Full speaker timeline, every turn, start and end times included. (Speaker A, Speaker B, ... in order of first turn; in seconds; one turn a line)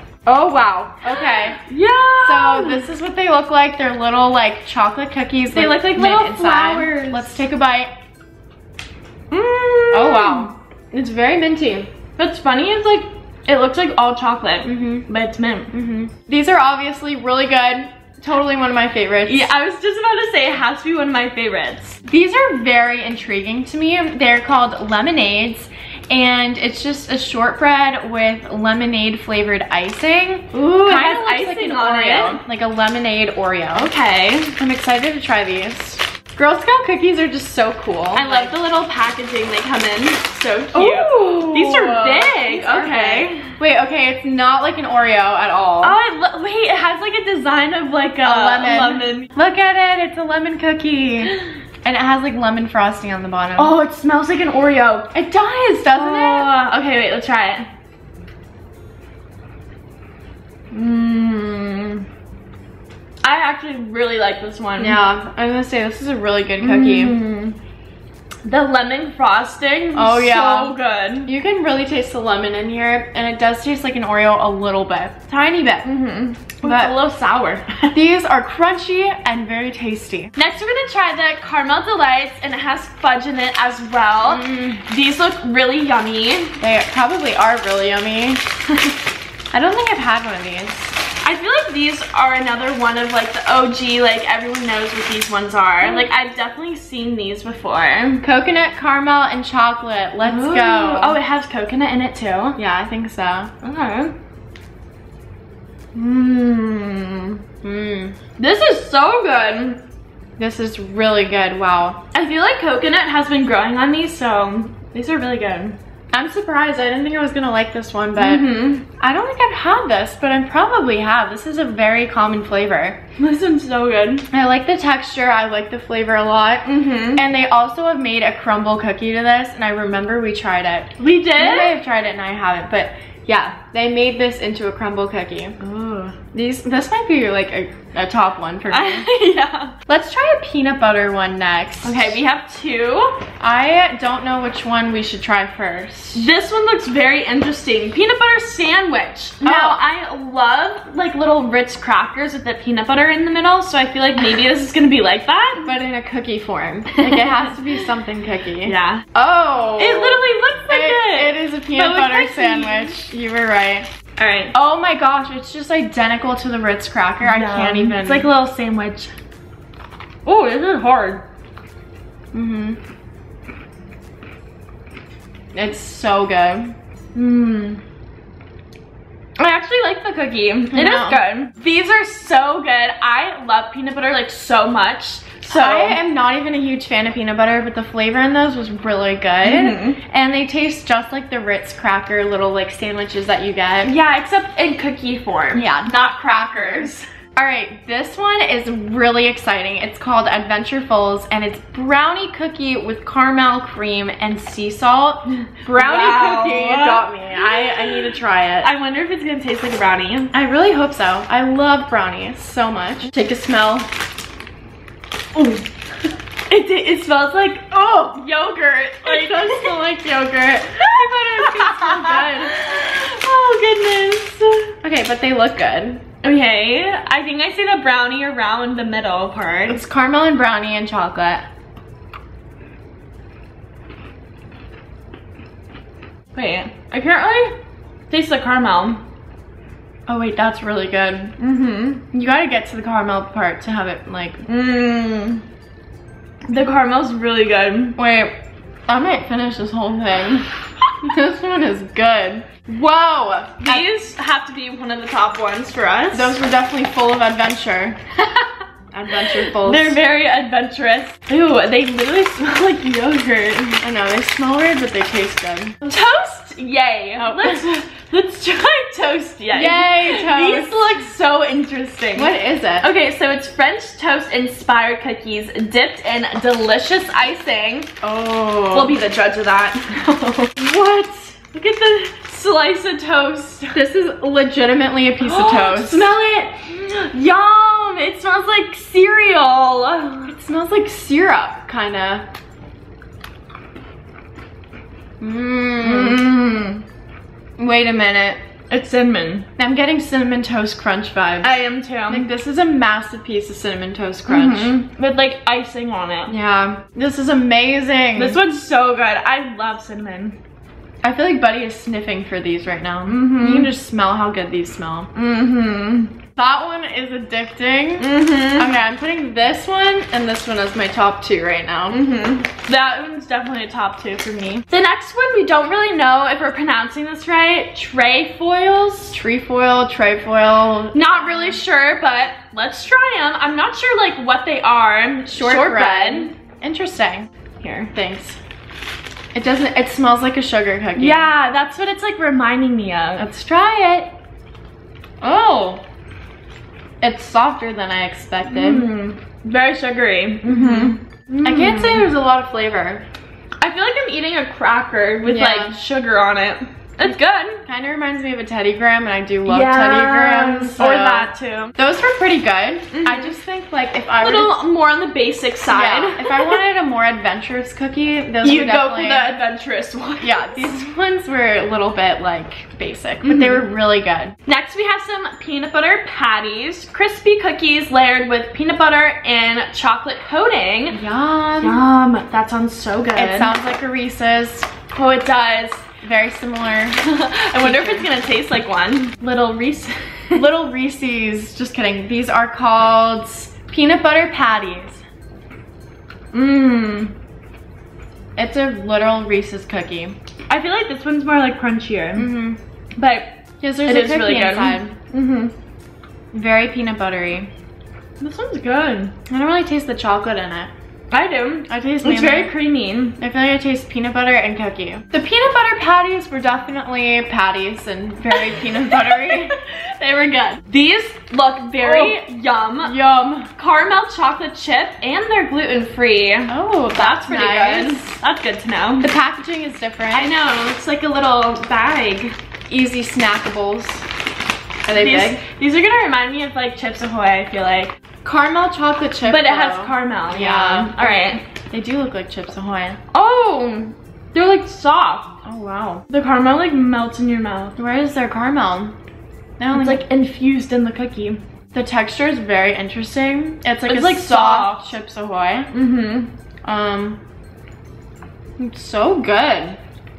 Speaker A: 0.2-1.6
Speaker B: 1.1-2.9
Speaker A: 2.2-7.9
Speaker B: 5.5-7.4
Speaker B: 9.3-10.5
Speaker A: 9.9-11.9
Speaker B: 12.2-15.7
Speaker A: 14.6-15.1
Speaker A: 15.7-19.5
Speaker B: 19.2-22.0
Speaker A: 22.1-33.9
Speaker B: 30.5-32.4
Speaker B: 33.7-34.5
Speaker A: 34.5-38.5
Speaker B: 38.1-43.4
Speaker A: 40.7-46.0
Speaker B: 45.8-49.3
Speaker A: 48.2-53.7
Speaker B: 53.6-55.1
Speaker A: 55.1-56.5
Speaker B: 55.9-57.7
Speaker B: 60.7-62.0
Speaker B: 63.2-65.0
Speaker A: 64.8-67.2
Speaker B: 66.6-67.6
Speaker B: 68.4-71.3
Speaker A: 69.9-75.9
Speaker B: 75.8-77.9
Speaker A: 76.6-76.9
Speaker A: 77.9-80.3
Speaker B: 80.3-86.5
Speaker A: 84.2-84.8
Speaker A: 86.6-88.6
Speaker A: 89.5-91.0
Speaker B: 91.2-98.2
Speaker A: 98.2-101.2
Speaker B: 100.2-102.6
Speaker A: 102.6-103.5
Speaker B: 103.6-104.1
Speaker B: 105.9-107.4
Speaker A: 107.6-108.2
Speaker B: 108.4-109.8
Speaker A: 110.4-112.0
Speaker B: 112.1-115.8
Speaker A: 116.1-118.5
Speaker B: 118.2-118.8
Speaker A: 119.0-123.0
Speaker B: 123.2-124.2
Speaker A: 124.3-135.6
Speaker B: 126.6-127.2
Speaker B: 131.0-131.8
Speaker B: 135.6-136.2
Speaker A: 136.3-139.1
Speaker B: 138.7-139.7
Speaker A: 139.8-142.2
Speaker B: 141.8-143.2
Speaker A: 143.4-146.3
Speaker B: 146.1-155.7
Speaker A: 149.4-149.8
Speaker A: 155.6-163.9
Speaker B: 156.9-157.5
Speaker B: 158.6-159.0
Speaker B: 159.8-162.9
Speaker B: 164.2-164.5
Speaker A: 164.5-168.3
Speaker B: 167.2-169.1
Speaker B: 170.2-171.2
Speaker A: 172.3-172.8
Speaker A: 175.5-176.7
Speaker B: 177.1-177.8
Speaker B: 179.4-186.0
Speaker A: 180.7-181.2
Speaker A: 185.5-193.9
Speaker B: 189.4-190.0
Speaker B: 193.8-197.0
Speaker A: 195.5-208.7
Speaker B: 205.6-210.3
Speaker A: 210.3-213.9
Speaker B: 215.3-215.7
Speaker B: 216.5-219.8
Speaker A: 219.0-222.7
Speaker B: 220.8-224.7
Speaker A: 224.8-226.0
Speaker B: 226.2-229.8
Speaker A: 229.7-231.4
Speaker B: 236.3-237.6
Speaker B: 238.1-239.0
Speaker A: 240.1-241.3
Speaker B: 241.4-242.0
Speaker A: 242.1-244.4
Speaker B: 244.4-245.4
Speaker B: 246.5-248.0
Speaker A: 248.0-248.3
Speaker A: 248.9-253.9
Speaker B: 253.6-256.4
Speaker A: 256.1-258.0
Speaker A: 258.9-260.0
Speaker B: 259.1-263.8
Speaker A: 263.8-265.8
Speaker B: 265.8-277.9
Speaker A: 267.2-267.6
Speaker A: 269.5-270.9
Speaker A: 272.1-272.9
Speaker A: 278.0-279.0
Speaker B: 278.7-280.7
Speaker A: 280.7-281.3
Speaker B: 281.4-283.8
Speaker A: 283.7-286.1
Speaker B: 285.2-290.3
Speaker A: 290.3-292.2
Speaker A: 295.2-296.2
Speaker B: 295.7-296.8
Speaker A: 297.6-298.4
Speaker B: 298.7-299.4
Speaker A: 299.6-304.8
Speaker B: 301.4-302.3
Speaker B: 304.3-306.3
Speaker A: 306.3-308.4
Speaker B: 308.1-310.4
Speaker A: 311.0-315.1
Speaker B: 313.1-313.7
Speaker B: 315.1-316.1
Speaker A: 316.4-322.0
Speaker B: 318.0-318.7
Speaker B: 321.9-329.2
Speaker A: 329.1-331.6
Speaker B: 330.9-336.3
Speaker A: 335.3-337.3
Speaker B: 337.6-337.9
Speaker A: 337.9-338.4
Speaker A: 339.3-341.3
Speaker B: 340.9-343.3
Speaker A: 343.2-344.1
Speaker A: 345.2-345.8
Speaker A: 347.0-348.9
Speaker B: 348.4-352.1
Speaker A: 350.4-353.0
Speaker B: 353.6-357.6
Speaker A: 355.2-355.8
Speaker A: 357.0-364.6
Speaker B: 359.4-361.7
Speaker B: 362.9-363.4
Speaker B: 364.2-366.6
Speaker A: 365.7-369.3
Speaker B: 368.4-370.8
Speaker A: 370.2-374.3
Speaker B: 373.2-373.6
Speaker B: 374.5-381.0
Speaker A: 380.9-381.8
Speaker B: 381.6-383.5
Speaker A: 383.1-384.7
Speaker B: 384.9-385.8
Speaker A: 386.0-387.0
Speaker B: 387.0-390.4
Speaker A: 387.6-388.1
Speaker A: 390.3-395.0
Speaker B: 396.3-397.1
Speaker A: 398.4-400.1
Speaker B: 400.5-402.3
Speaker A: 402.1-402.6
Speaker B: 403.0-403.3
Speaker A: 403.6-404.9
Speaker B: 403.8-405.5
Speaker A: 406.3-407.5
Speaker B: 408.2-409.1
Speaker A: 409.3-410.7
Speaker B: 411.1-413.2
Speaker A: 411.7-412.5
Speaker A: 413.2-419.6
Speaker B: 418.4-429.1
Speaker A: 421.8-422.1
Speaker A: 422.8-423.5
Speaker A: 426.5-428.2
Speaker A: 429.0-430.3
Speaker B: 430.1-432.3
Speaker A: 432.7-434.0
Speaker A: 434.8-435.4
Speaker B: 434.9-437.9
Speaker A: 438.2-443.0
Speaker B: 439.2-441.4
Speaker B: 443.1-445.4
Speaker A: 445.4-446.0
Speaker B: 446.1-447.8
Speaker A: 447.8-448.9
Speaker A: 449.6-450.0
Speaker B: 449.7-451.4
Speaker A: 451.7-455.7
Speaker B: 453.9-454.9
Speaker B: 455.7-456.3
Speaker A: 456.6-457.2
Speaker A: 458.6-459.8